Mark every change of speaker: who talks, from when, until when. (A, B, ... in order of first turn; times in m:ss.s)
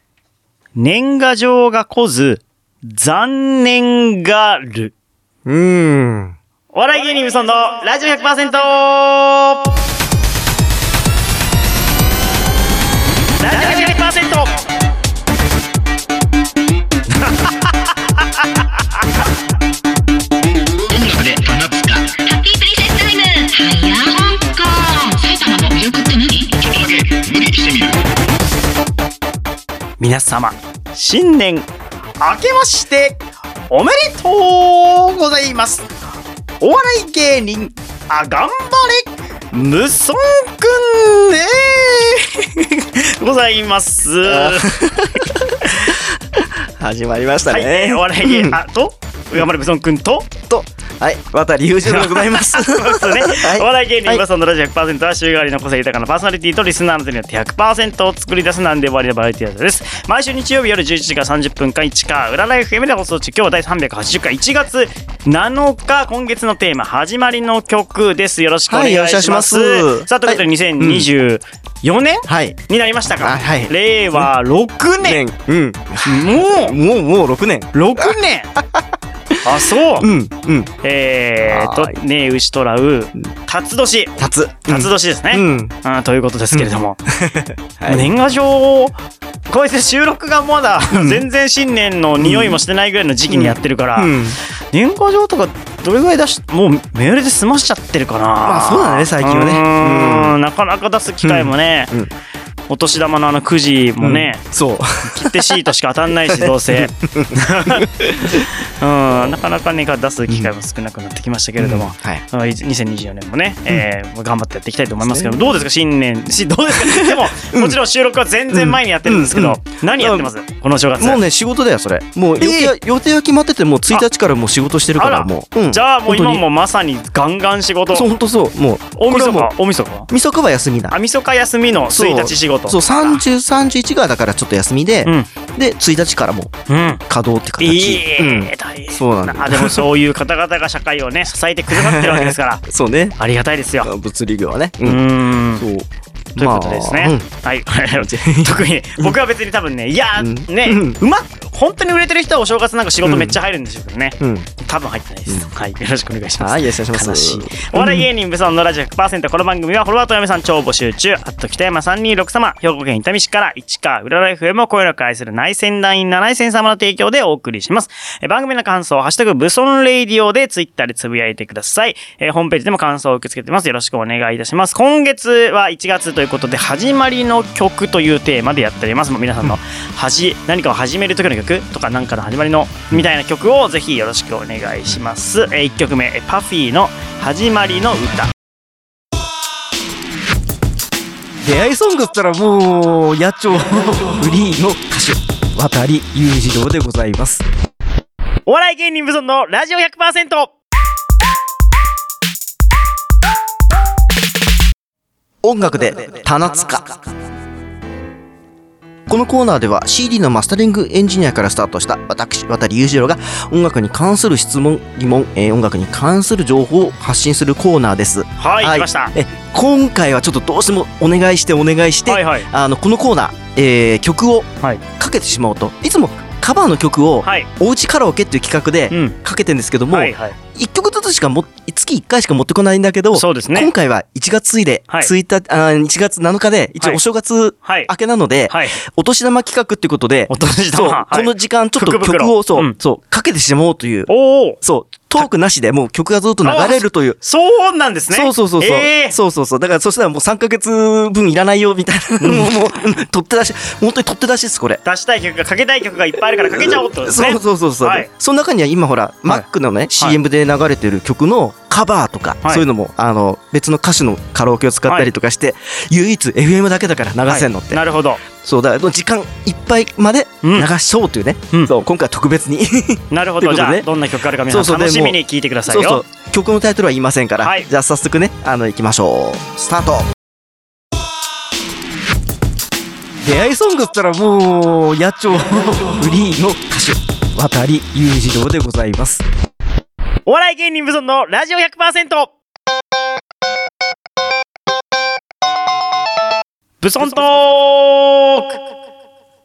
0:00.8-0:04.9 A
0:05.5-0:06.4 B
0:06.7-0:09.6 A
0:13.4-0:14.6 A
0:20.9-0:27.9 C
0:30.0-0:31.7 A
0:32.2-0:35.9 A
0:36.6-0:44.8 A
0:44.2-0:48.6 B
0:45.6-0:46.0 A
0:47.5-0:50.3 A
0:50.5-0:54.2 B
0:51.9-1:15.2 A
1:08.7-1:11.1 B
1:12.3-1:12.6 B
1:13.2-1:14.3 B
1:15.0-1:20.7 B
1:16.0-1:16.8 A
1:17.7-1:18.5 A
1:19.4-1:20.1 A
1:20.8-1:27.0 A
1:21.5-1:22.0 B
1:24.2-1:25.8 B
1:26.5-1:28.1 B
1:27.9-1:29.0 A
1:29.5-1:34.2 A
1:30.9-1:31.2 B
1:32.2-1:32.6 B
1:33.3-1:34.4 B
1:34.7-1:41.9 A
1:38.4-1:40.4 B
1:41.2-1:42.1 B
1:42.7-1:44.4 A
1:44.0-1:45.6 B
1:45.1-2:01.2 A
1:46.2-1:48.5 B
1:51.6-1:52.2 B
1:55.0-1:55.6 B
1:56.7-1:57.8 B
1:58.5-2:00.3 B
2:01.0-2:06.4 B
2:02.4-2:02.8 A
2:05.0-2:08.1 A
2:07.9-2:09.5 B
2:09.0-2:10.1 A
2:10.1-2:11.0 B
2:10.9-2:13.2 A
2:11.9-2:16.5 B
2:15.0-2:15.3 A
2:16.7-2:17.0 A
2:17.1-2:19.9 B
2:17.6-2:22.6 A
2:21.7-2:23.2 B
2:23.2-2:23.9 A
2:23.8-2:25.0 B
2:24.8-2:25.6 A
2:25.6-2:27.3 B
2:26.4-3:08.3 A
2:27.9-2:29.2 B
2:30.2-2:31.0 B
2:33.0-2:33.4 B
2:34.2-2:34.5 B
2:35.3-2:35.6 B
2:36.4-2:38.1 B
3:11.4-3:17.4 B
3:18.5-3:20.5 A
3:25.4-3:27.0 B
3:29.1-4:04.1 B
3:38.4-3:39.1 A
3:42.1-3:42.5 A
3:48.9-3:49.2 A
3:49.9-3:50.4 A
3:53.1-3:53.7 A
3:57.6-3:57.9 A
3:58.5-3:58.8 A
4:00.3-4:02.8 A
4:04.1-4:04.6 A
4:04.6-4:07.2 B
4:06.4-4:09.2 A
4:08.1-4:14.8 B
4:12.2-4:12.5 A
4:14.8-4:18.1 A
4:16.3-4:27.8 B
4:27.3-4:28.2 A
4:28.4-4:33.9 B
4:30.4-4:30.7 A
4:33.1-4:36.0 A
4:34.5-4:40.1 B
4:37.4-4:37.7 A
4:43.2-4:49.2 B
4:50.3-4:52.3 A
4:56.8-4:58.6 A